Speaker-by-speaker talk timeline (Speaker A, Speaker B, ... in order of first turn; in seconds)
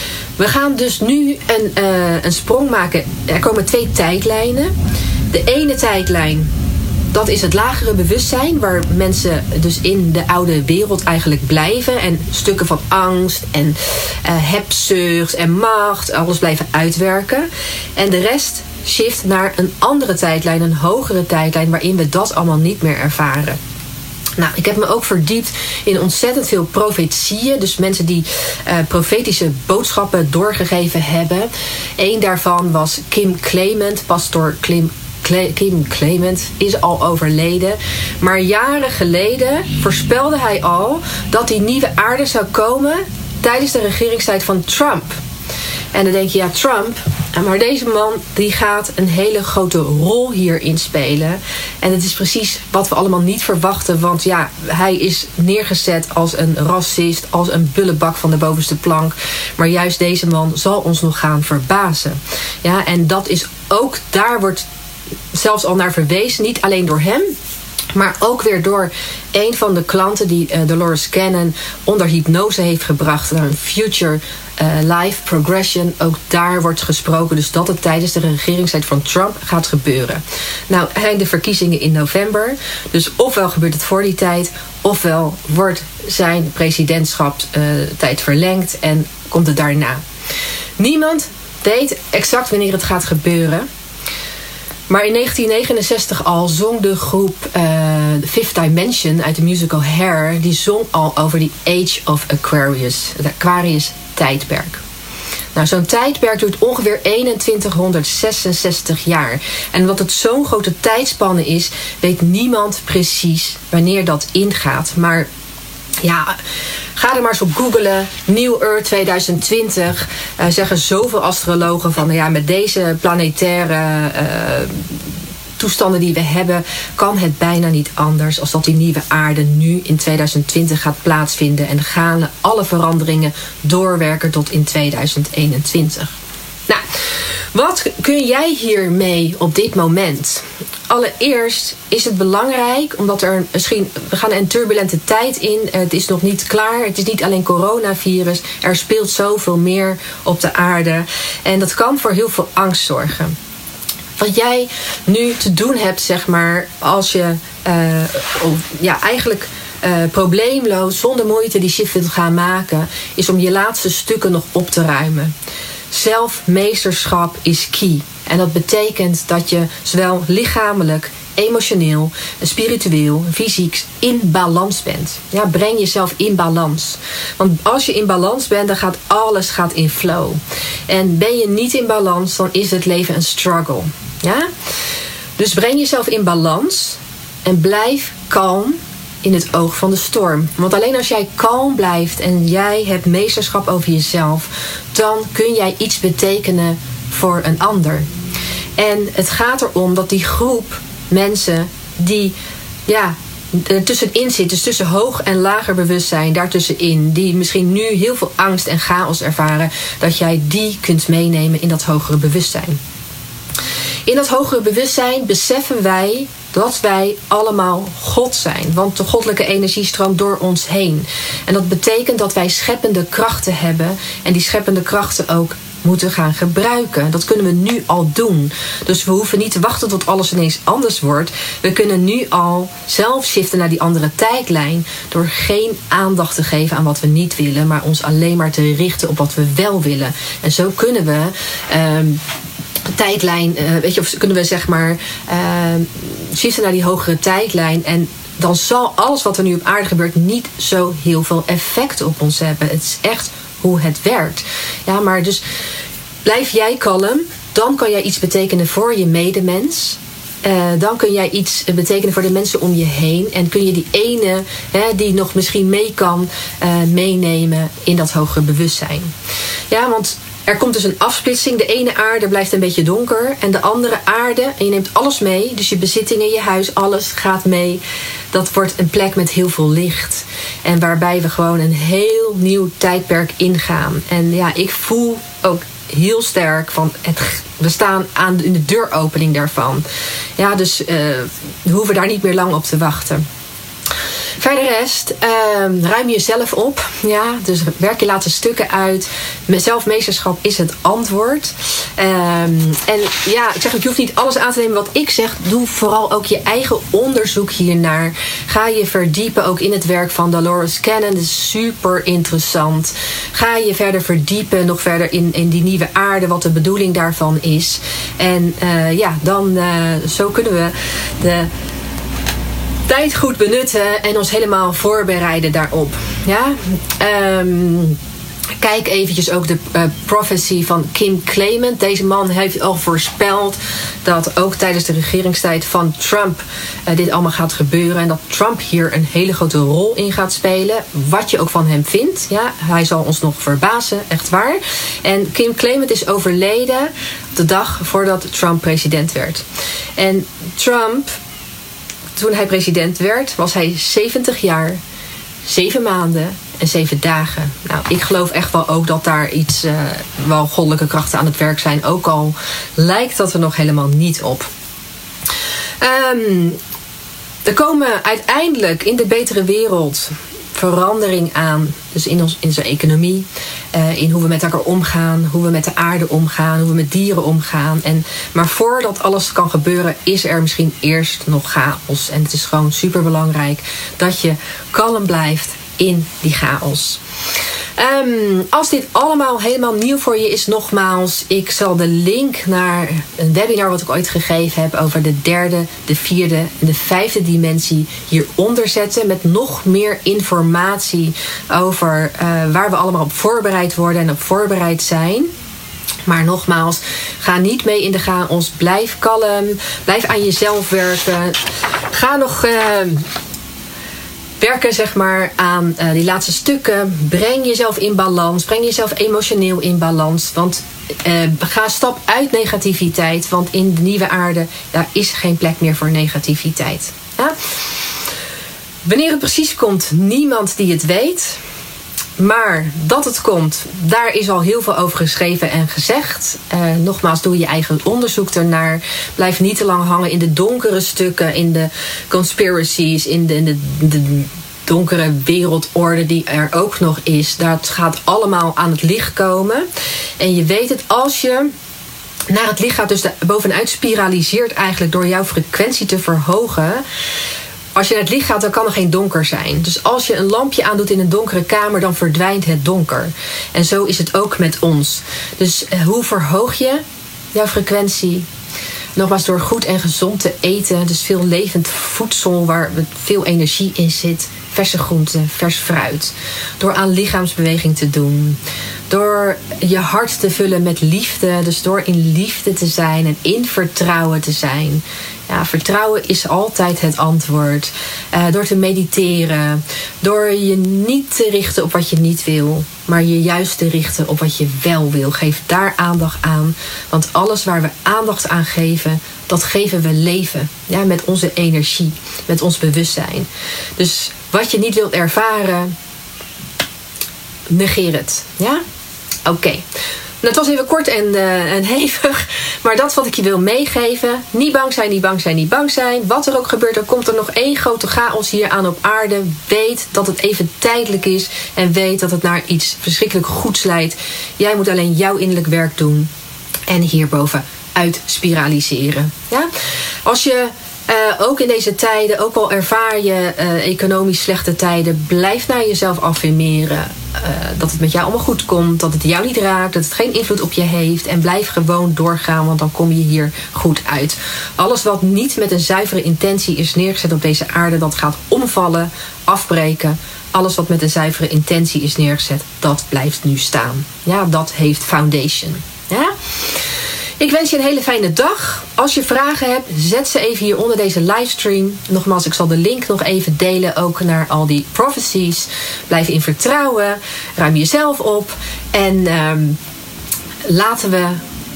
Speaker A: 0.4-4.7, 5.3-6.5, 7.1-23.6, 24.4-45.2, 45.9-64.7, 65.3-67.3, 67.9-90.0, 90.8-93.7, 94.9-104.8, 105.5-115.3, 116.0-116.4, 117.0-124.9, 125.6-136.1, 137.5-153.3, 154.2-165.3, 165.9-184.5, 185.4-198.1, 198.8-202.3, 202.9-212.8, 214.1-242.2, 242.9-255.4, 256.2-269.1, 269.7-289.9, 290.4-293.2, 294.4-321.5, 322.9-328.0, 328.6-349.4, 350.0-351.1, 352.1-354.8, 355.4-364.5, 365.8-366.6, 367.4-387.0, 387.8-405.3, 406.1-411.4, 411.9-413.1, 414.4-427.3, 428.9-431.4, 432.2-449.6, 450.2-451.5, 452.3-456.8, 457.7-466.8, 467.3-468.2, 468.9-478.4, 478.9-505.7, 507.5-508.6, 509.2-509.6, 510.2-526.1, 526.7-529.5, 530.0-556.1, 557.2-569.6, 570.4-571.2